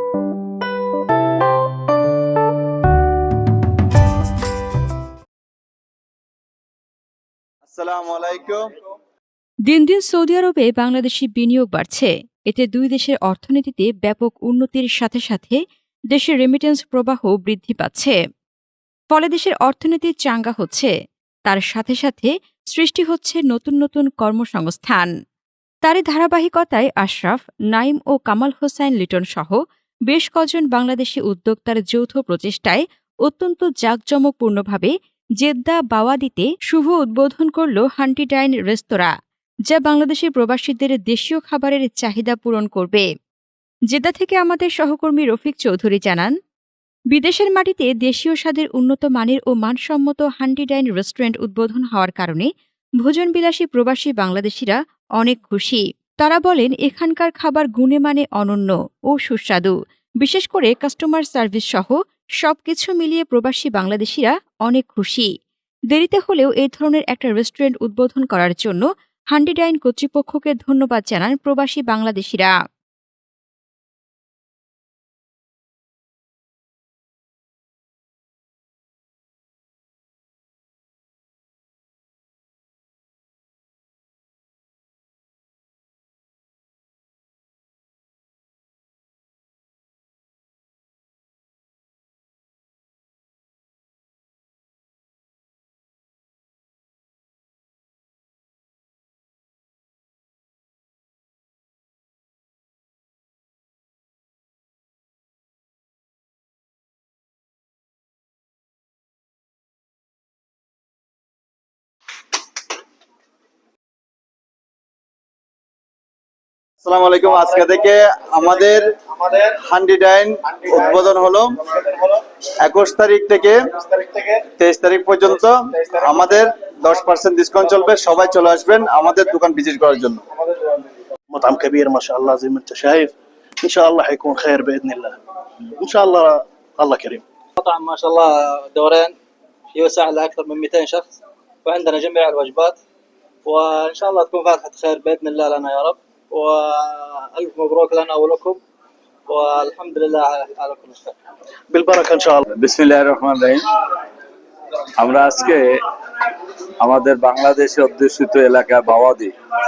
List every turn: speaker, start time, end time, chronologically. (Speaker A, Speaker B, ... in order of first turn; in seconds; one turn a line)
Speaker A: 7.7-8.7
Speaker B: 9.7-18.2
Speaker B: 19.1-20.9
Speaker B: 21.5-25.1
Speaker B: 25.8-39.1
Speaker B: 39.7-43.1
Speaker B: 43.9-46.3
Speaker B: 47.1-65.3
Speaker B: 65.9-72.5
Speaker A: 116.8-121.6
Speaker A: 122.6-123.6
Speaker A: 124.5-130.2
Speaker C: 131.3-135.2
Speaker C: 135.8-137.2
Speaker D: 137.6-139.1
Speaker D: 139.8-141.1
Speaker D: 141.7-142.8
Speaker D: 143.5-148.6
Speaker D: 149.3-151.1
Speaker C: 151.7-152.5
Speaker E: 152.6-153.7
Speaker E: 155.0-155.8
Speaker E: 156.8-159.3